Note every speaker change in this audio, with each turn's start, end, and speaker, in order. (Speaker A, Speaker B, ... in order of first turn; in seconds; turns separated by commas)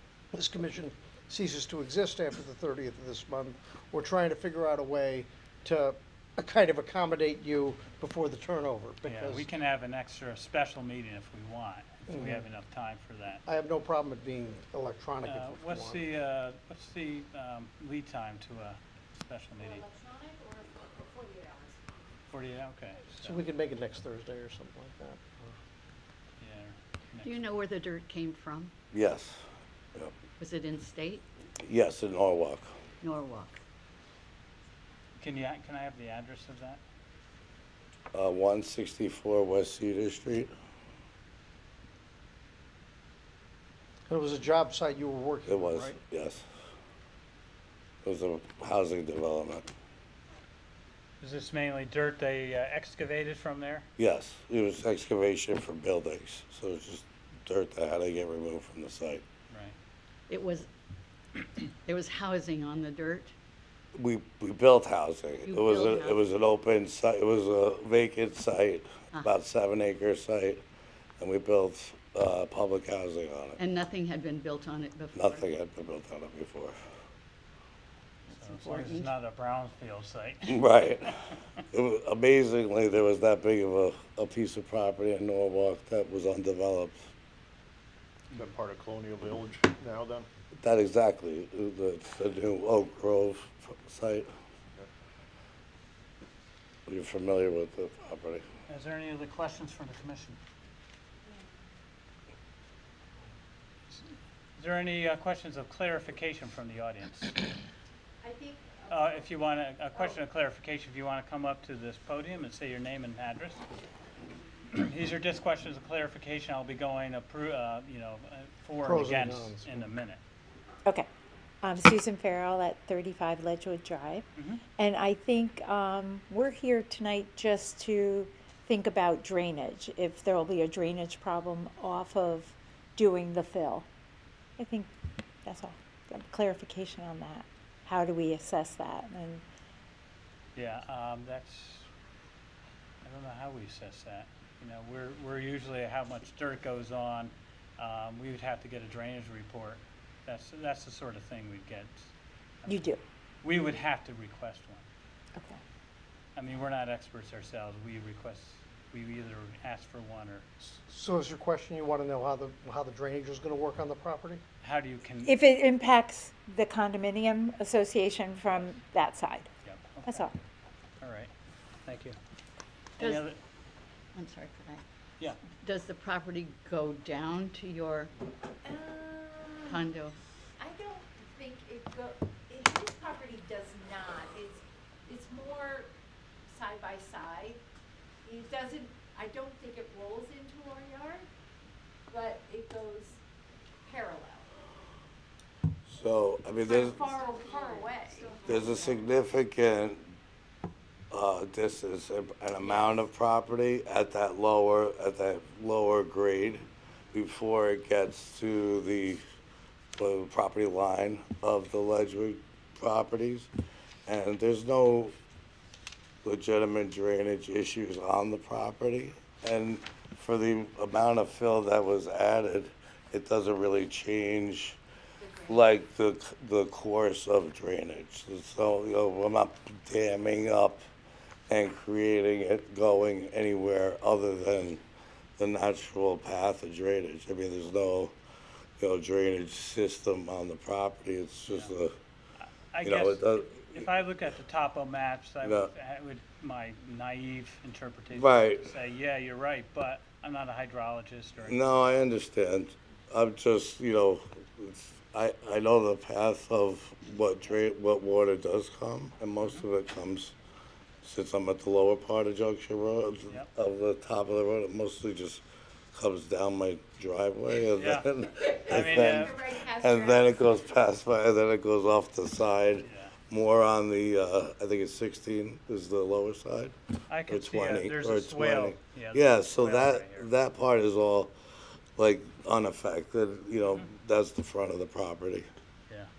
Speaker A: 0.3-9.5, Speaker B: 9.1-13.4, Speaker A: 12.1-12.4, Speaker A: 13.5-16.0, Speaker B: 15.3-19.9, Speaker C: 19.6-21.8, Speaker B: 22.3-23.4, Speaker A: 23.2-25.5, Speaker B: 26.4-27.4, Speaker D: 27.2-28.7, Speaker E: 28.9-29.4, Speaker D: 30.4-31.3, Speaker E: 31.6-32.7, Speaker D: 33.0-33.6, Speaker B: 35.2-36.8, Speaker E: 38.1-40.5, Speaker A: 44.1-46.0, Speaker E: 45.5-46.5, Speaker E: 48.0-49.7, Speaker B: 51.2-53.9, Speaker E: 54.0-59.2, Speaker D: 60.3-60.7, Speaker D: 61.4-63.3, Speaker E: 64.0-70.6, Speaker D: 65.5-66.2, Speaker E: 71.2-73.6, Speaker D: 73.6-75.5, Speaker E: 75.2-76.8, Speaker B: 78.3-80.8, Speaker D: 78.4-79.1, Speaker E: 80.5-87.0, Speaker F: 88.3-90.3, Speaker E: 90.6-94.3, Speaker E: 96.9-98.4, Speaker B: 98.7-100.4, Speaker B: 104.6-107.4, Speaker G: 108.2-108.8, Speaker B: 108.9-113.6, Speaker B: 114.7-120.2, Speaker A: 118.8-119.8, Speaker G: 121.6-124.3, Speaker B: 124.4-124.6, Speaker G: 124.8-133.9, Speaker G: 134.6-134.9, Speaker G: 135.4-139.4, Speaker B: 140.6-141.9, Speaker B: 143.0-152.1, Speaker G: 152.7-153.0, Speaker B: 153.4-154.8, Speaker B: 156.4-160.4, Speaker A: 160.9-164.4, Speaker B: 164.6-165.4, Speaker G: 165.2-169.5, Speaker B: 169.7-170.3, Speaker G: 170.1-170.3, Speaker B: 171.0-171.3, Speaker B: 171.8-172.2, Speaker B: 173.0-173.4, Speaker D: 173.0-173.2, Speaker D: 174.2-174.8, Speaker B: 175.2-175.4, Speaker D: 175.5-178.1, Speaker G: 178.7-179.9, Speaker D: 179.7-180.2, Speaker G: 180.6-184.4, Speaker C: 182.7-183.7, Speaker C: 184.3-185.8, Speaker C: 186.6-187.6, Speaker G: 186.7-187.5, Speaker C: 188.3-191.3, Speaker G: 188.8-189.1, Speaker G: 189.6-190.7, Speaker C: 192.1-193.2, Speaker G: 192.4-192.8, Speaker C: 193.9-194.4, Speaker E: 195.9-197.2, Speaker G: 197.1-198.5, Speaker C: 197.3-198.9, Speaker E: 198.4-200.1, Speaker E: 201.1-209.2, Speaker E: 210.0-213.5, Speaker E: 214.1-215.1, Speaker E: 216.2-224.8, Speaker E: 225.5-230.8, Speaker E: 231.5-234.8, Speaker E: 235.4-238.1, Speaker E: 238.8-241.9, Speaker B: 242.4-251.7, Speaker E: 242.8-243.8, Speaker E: 245.4-245.7, Speaker E: 248.1-248.7, Speaker E: 251.4-260.3, Speaker E: 261.0-265.4, Speaker E: 265.9-276.8, Speaker B: 267.8-268.1, Speaker B: 268.7-269.4, Speaker C: 268.7-268.9, Speaker C: 269.7-270.2, Speaker B: 272.8-273.1, Speaker B: 277.1-280.3, Speaker E: 277.3-281.3, Speaker E: 282.0-285.5